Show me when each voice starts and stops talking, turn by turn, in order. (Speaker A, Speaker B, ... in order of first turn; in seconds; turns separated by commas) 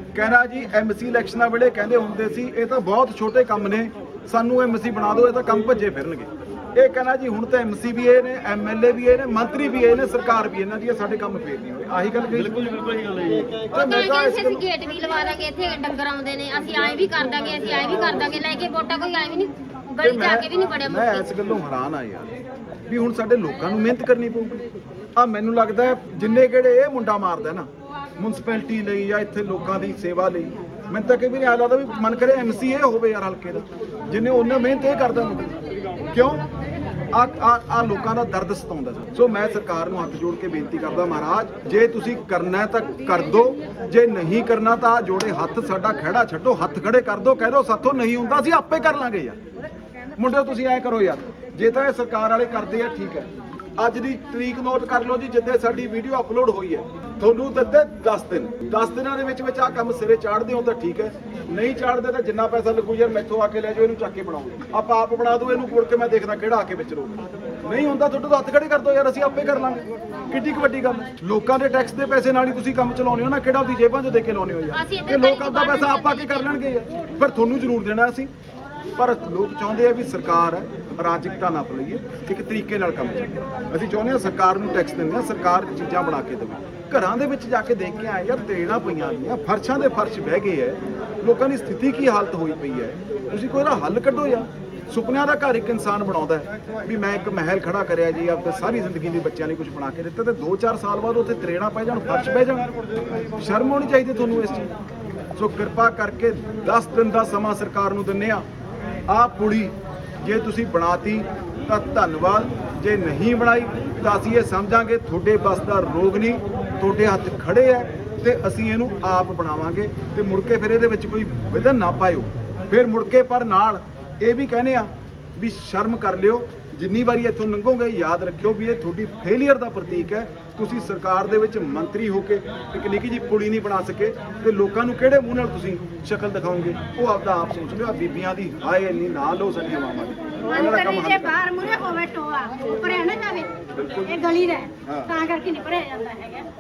Speaker A: 0.1-12.7, Speaker A: 13.7-14.6, Speaker B: 13.7-21.3, Speaker A: 20.0-22.3, Speaker A: 22.9-24.6, Speaker A: 25.2-35.6, Speaker A: 36.1-36.4, Speaker A: 37.1-49.4, Speaker A: 50.2-78.3, Speaker B: 74.7-76.6, Speaker A: 79.0-104.7, Speaker A: 105.4-108.5, Speaker A: 109.1-141.4, Speaker C: 140.4-143.5, Speaker A: 143.8-144.1, Speaker C: 144.1-146.5, Speaker A: 144.8-145.1